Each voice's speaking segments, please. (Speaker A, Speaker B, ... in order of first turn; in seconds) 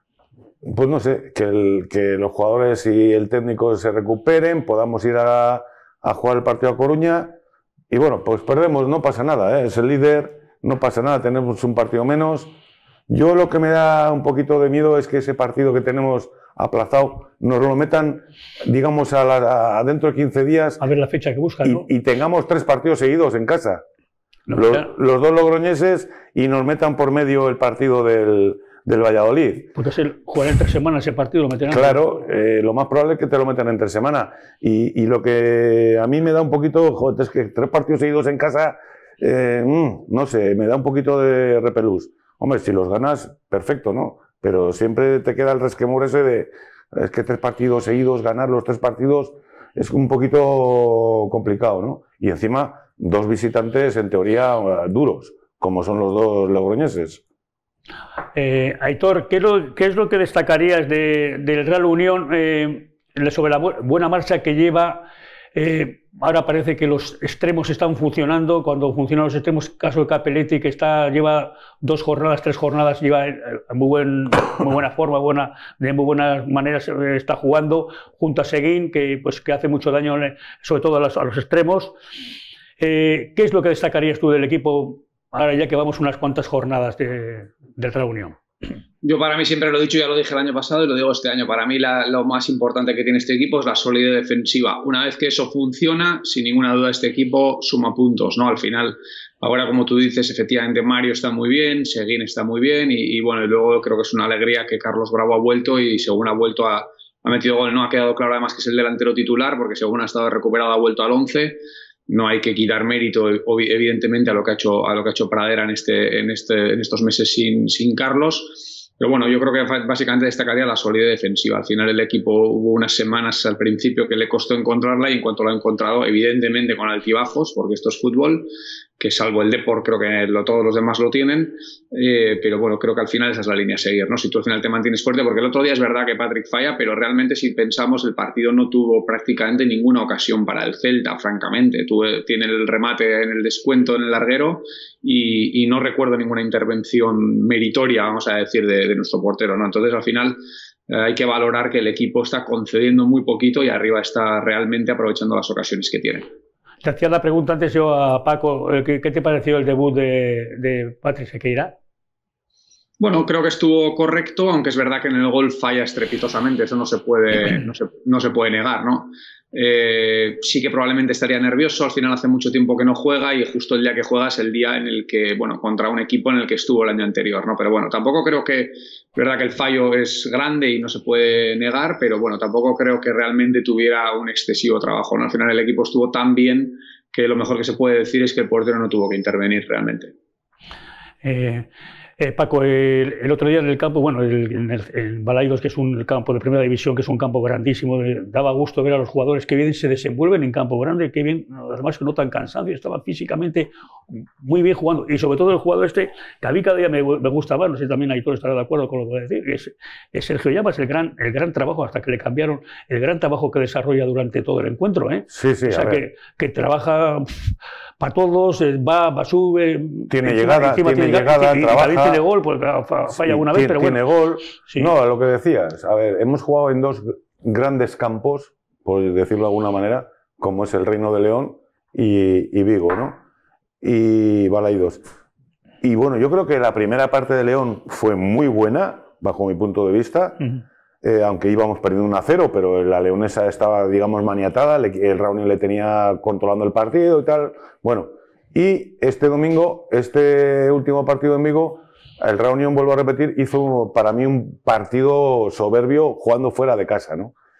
Speaker A: 0.6-7.3, 7.9-12.5, 13.1-20.8, 21.6-23.8, 24.5-29.7, 31.7-57.2, 215.3-216.0, 220.1-222.2, 223.1-233.2, 233.8-235.0, 235.8-240.5, 241.0-257.3
Speaker B: 20.8-21.9, 24.5-24.9, 29.7-32.0, 58.3-81.9, 82.8-88.4, 156.8-161.7, 191.2-224.0
Speaker C: 89.0-156.3, 163.0-190.1